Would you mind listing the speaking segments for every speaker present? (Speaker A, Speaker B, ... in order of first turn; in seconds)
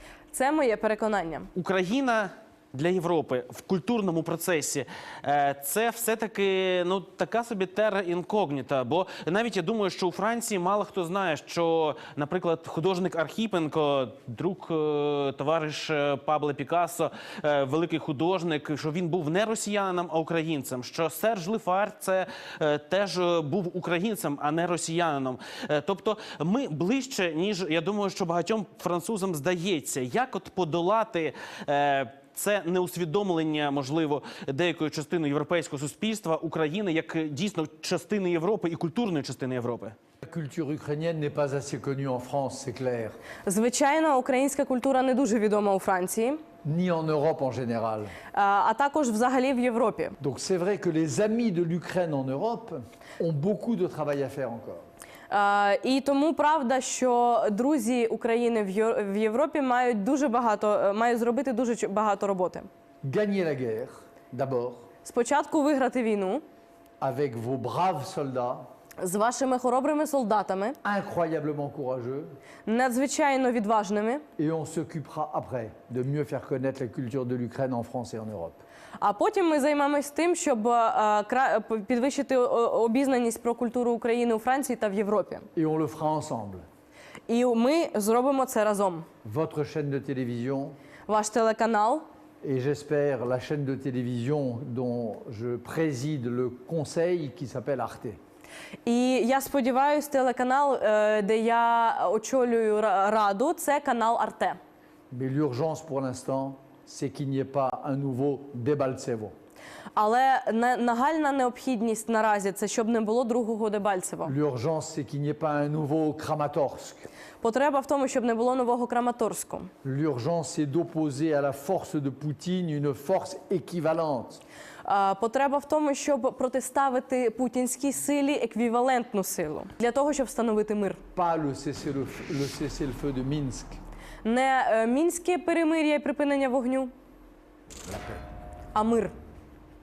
Speaker A: 0.3-1.5, 43.5-46.4, 48.3-50.1, 55.3-62.7, 65.0-66.4, 69.0-70.8, 72.7-74.2, 79.0-85.5, 87.3-89.0, 91.1-92.0, 98.8-104.6, 109.9-114.3, 117.4-119.7, 124.8-131.0, 134.2-136.9, 138.7-139.1
Speaker B: 1.5-39.9
Speaker C: 40.2-43.2, 46.6-48.1, 50.2-54.8, 63.0-64.8, 67.0-68.6, 70.8-72.3, 74.4-78.6, 85.5-86.6, 89.2-90.8, 92.4-98.2, 105.1-109.3, 114.2-117.1, 119.8-124.4, 131.1-133.8